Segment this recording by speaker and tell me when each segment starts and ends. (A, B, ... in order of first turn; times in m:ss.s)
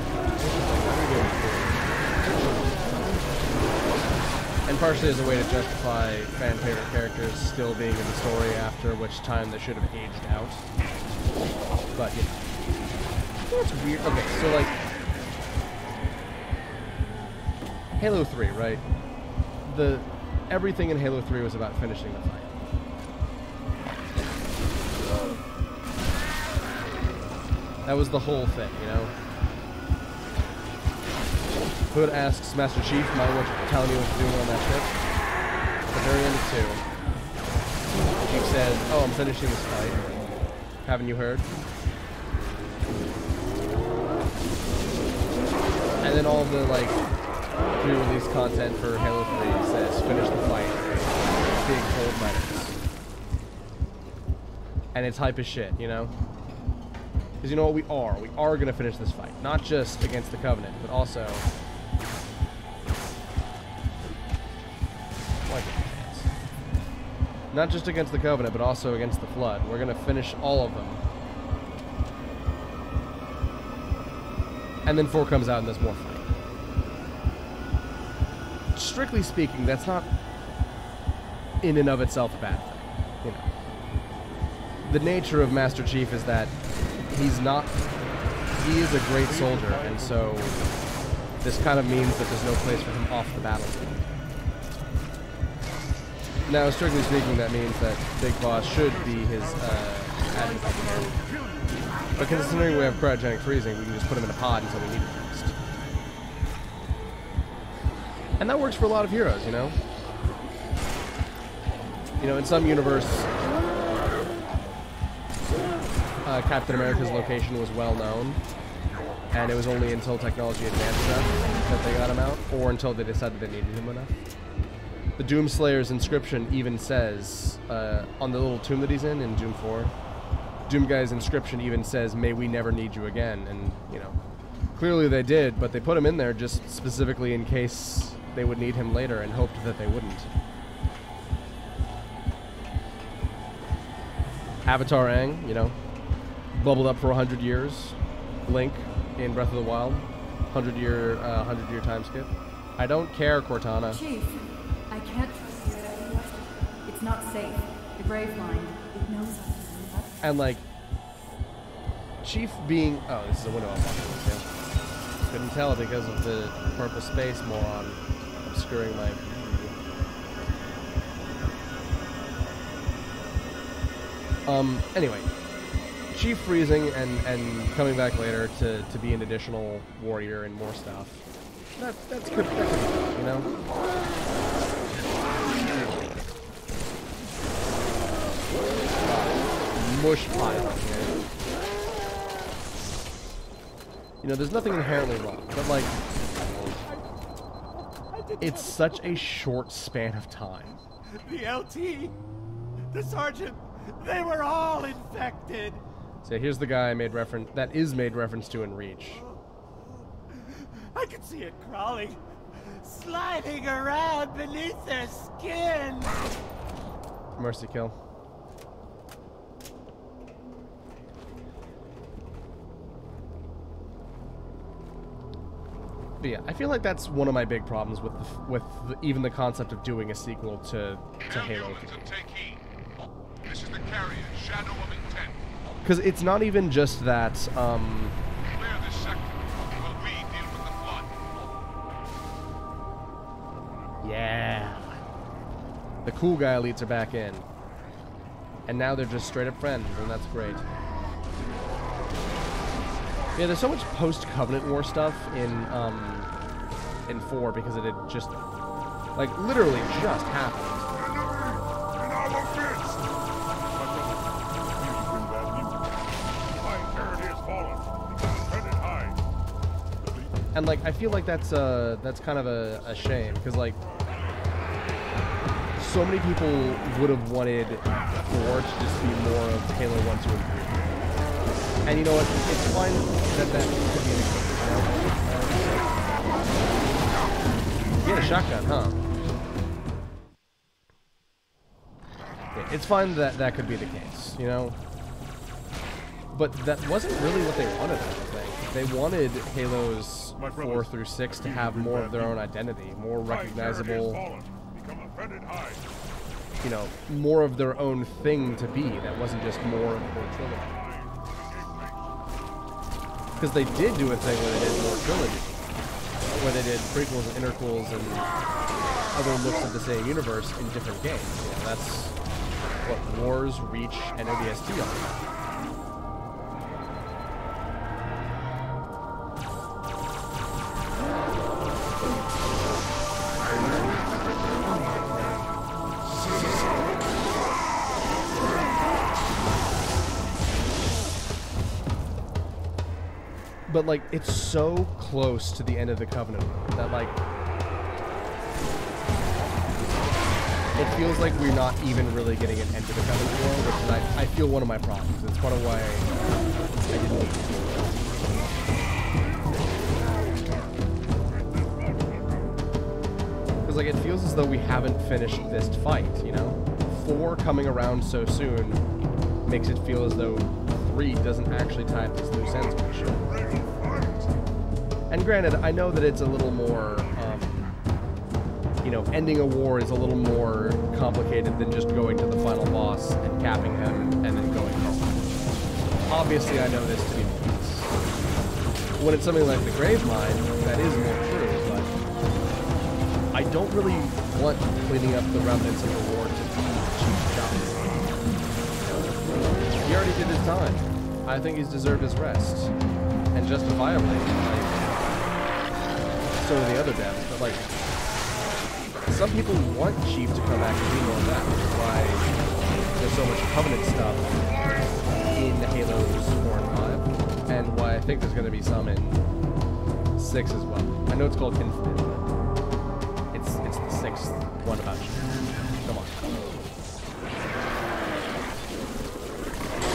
0:00.3-0:03.6 A
0:04.7-0:10.7 A
0:11.9-0:12.4 A
0:13.5-0:14.7 A
0:18.0-0:18.8 A
0:19.6-0:22.7 A
0:27.8-0:29.1 A
0:31.9-0:34.9 A
0:35.9-0:36.8 A
0:38.2-0:40.2 A
0:40.8-0:41.5 A
0:46.0-0:47.0 A
0:47.8-0:52.8 A
0:54.9-0:56.1 A
0:57.4-1:01.5 A
1:05.5-1:06.3 A
1:07.5-1:11.0 A
1:14.8-1:16.3 A
1:18.8-1:20.1 A
1:21.6-1:23.5 A
1:24.8-1:26.5 A
1:27.1-1:27.8 A
1:28.6-1:30.6 A
1:29.2-1:30.5 B
1:31.4-1:34.1 A
1:36.5-1:41.1 A
1:38.7-1:43.0 B
1:42.2-1:45.5 A
1:48.4-1:49.8 A
1:52.2-1:53.3 A
1:56.2-1:58.4 A
1:59.3-2:04.2 A
2:05.2-2:09.9 A
2:10.7-2:14.2 A
2:14.8-2:20.3 A
2:24.6-2:25.8 A
2:26.5-2:34.0 A
2:33.9-2:40.2 C
2:40.2-2:40.6 A
2:42.2-2:44.5 A
2:45.2-2:49.7 A
2:54.5-2:55.3 A
2:56.1-3:01.2 A
3:01.8-3:03.5 A
3:09.0-3:11.1 A
3:14.2-3:15.9 A
3:18.1-3:19.0 D
3:18.4-3:20.8 A
3:21.1-3:22.2 D
3:22.9-3:25.8 D
3:26.2-3:29.2 A
3:29.1-3:36.2 D
3:37.4-3:38.0 A
3:46.2-3:52.0 A
3:53.5-3:55.3 B
3:55.8-3:58.2 A
4:04.0-4:05.0 A
4:06.0-4:07.5 A
4:08.7-4:10.6 A
4:13.4-4:16.3 A
4:17.1-4:18.4 A
4:19.1-4:20.9 A
4:20.9-4:23.1 B
4:23.7-4:25.9 B
4:26.4-4:29.2 B
4:30.0-4:30.4 B
4:30.5-4:33.8 A
4:32.8-4:33.3 B
4:35.8-4:41.0 A
4:41.8-4:46.7 A
4:48.0-4:49.0 A
4:52.5-4:54.8 A
4:56.3-5:04.2 A
5:00.4-5:02.5 B
5:03.2-5:05.9 B
5:06.6-5:10.8 A
5:09.6-5:12.3 B
5:13.4-5:15.6 A
5:16.4-5:18.3 A
5:19.1-5:22.2 A
5:22.8-5:25.1 A
5:35.1-5:35.4 A
5:43.7-5:47.1 A
5:50.8-5:56.1 A
5:56.9-5:58.2 A
5:59.1-6:02.6 B
6:03.6-6:08.8 A
6:09.5-6:13.3 A
6:12.3-6:14.4 B
6:15.1-6:17.6 A
6:16.8-6:17.6 B
6:18.8-6:25.2 A
6:26.1-6:27.9 A
6:29.0-6:32.0 A
6:33.3-6:37.9 A
6:38.8-6:39.2 A
6:39.8-6:42.7 A
6:43.3-6:44.9 A
6:46.4-6:47.7 A
6:49.1-6:52.4 A
6:53.0-6:54.3 A
6:55.3-6:59.2 A
7:00.2-7:02.3 A
7:03.3-7:05.3 A
7:05.8-7:06.3 A